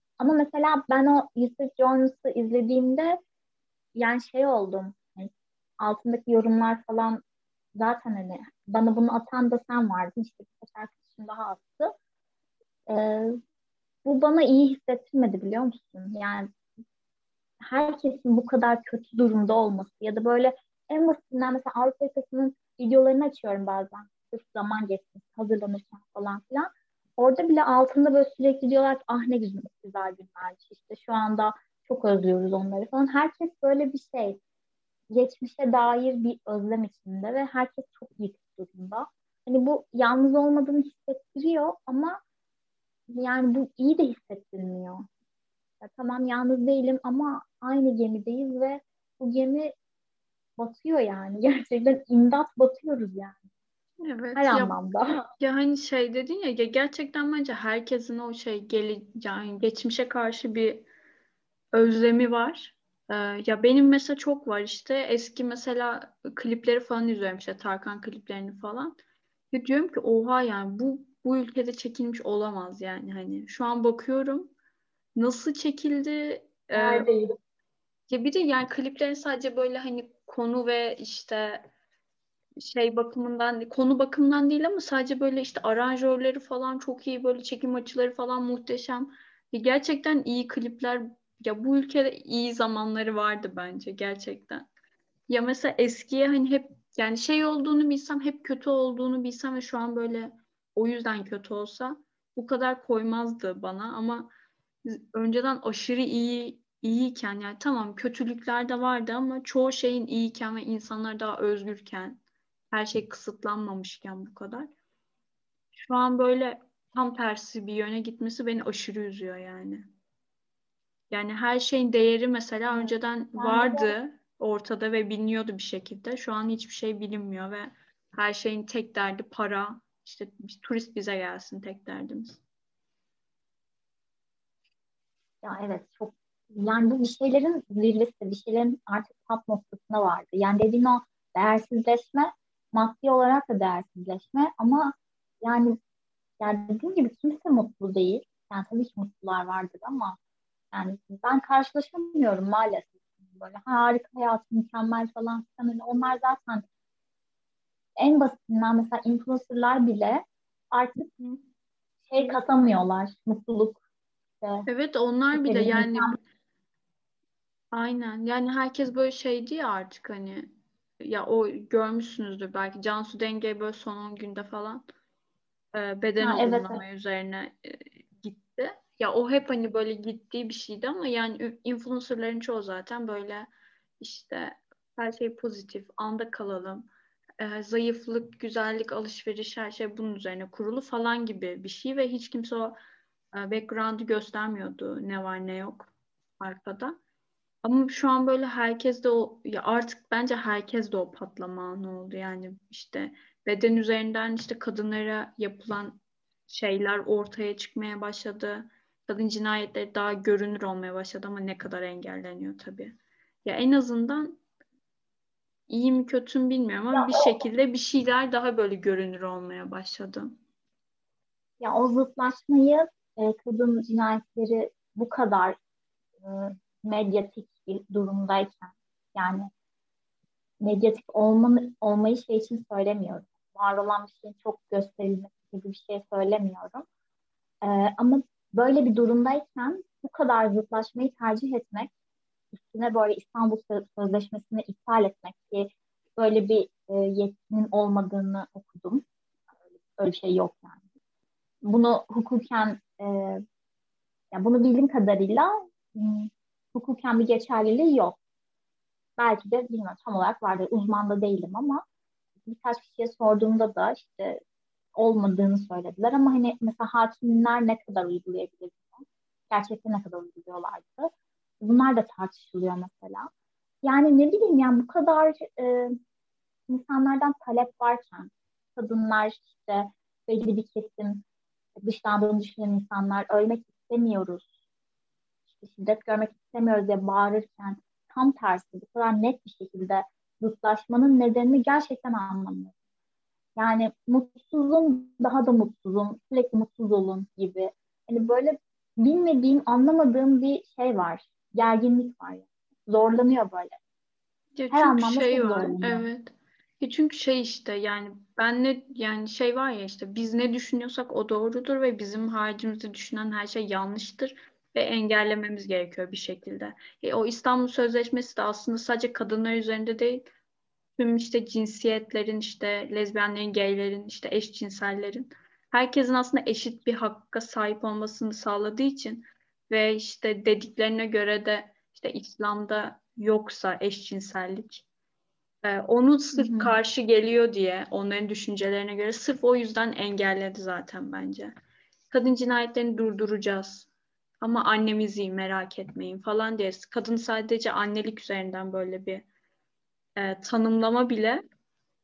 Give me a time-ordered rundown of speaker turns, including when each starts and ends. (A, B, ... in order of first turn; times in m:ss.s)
0:00.2-0:03.2 A
0:04.0-0:07.2 A
0:07.8-0:11.9 A
0:12.9-0:13.4 A
0:14.0-0:16.5 A
0:17.6-0:34.4 A
0:35.1-0:42.2 A
0:43.1-0:45.0 A
0:45.8-0:49.7 A
0:50.6-0:53.4 A
0:54.0-0:54.7 B
0:54.3-0:55.2 A
0:55.4-1:00.9 B
1:01.7-1:09.0 B
1:09.5-1:14.5 B
1:15.2-1:17.1 B
1:16.7-1:17.3 A
1:18.1-1:21.6 B
1:22.6-1:34.7 B
1:35.3-1:44.3 B
1:44.8-1:54.7 B
1:55.7-1:59.9 B
2:01.1-2:12.4 B
2:02.7-2:03.9 A
2:15.4-2:25.8 A
2:26.4-2:30.2 A
2:30.7-2:36.6 A
2:38.0-2:41.1 A
2:42.1-2:43.8 A
2:44.4-2:44.6 A
2:44.7-2:46.2 B
2:45.3-2:46.2 A
2:47.7-2:50.5 B
2:51.0-2:54.8 B
2:55.7-3:12.8 B
2:56.2-2:56.8 A
3:13.3-3:17.0 B
3:17.6-3:34.4 B
3:35.7-3:40.3 B
3:36.9-3:37.3 A
3:41.6-3:45.6 A
3:46.2-3:49.5 A
3:50.6-3:56.8 A
3:57.6-4:01.9 A
4:02.5-4:09.0 A
4:10.0-4:10.8 A
4:11.6-4:13.4 A
4:14.3-4:18.2 A
4:19.2-4:21.8 A
4:22.4-4:24.4 A
4:25.0-4:33.3 A
4:33.8-4:36.0 A
4:36.7-4:41.2 A
4:41.8-4:44.4 A
4:45.6-4:52.7 A
4:53.6-5:03.8 A
5:04.6-5:20.3 B
5:04.7-5:06.0 A
5:21.0-5:34.8 B
5:35.6-5:41.5 B
5:36.3-5:36.8 A
5:42.1-5:43.9 B
5:44.4-5:49.2 B
5:50.2-5:51.4 B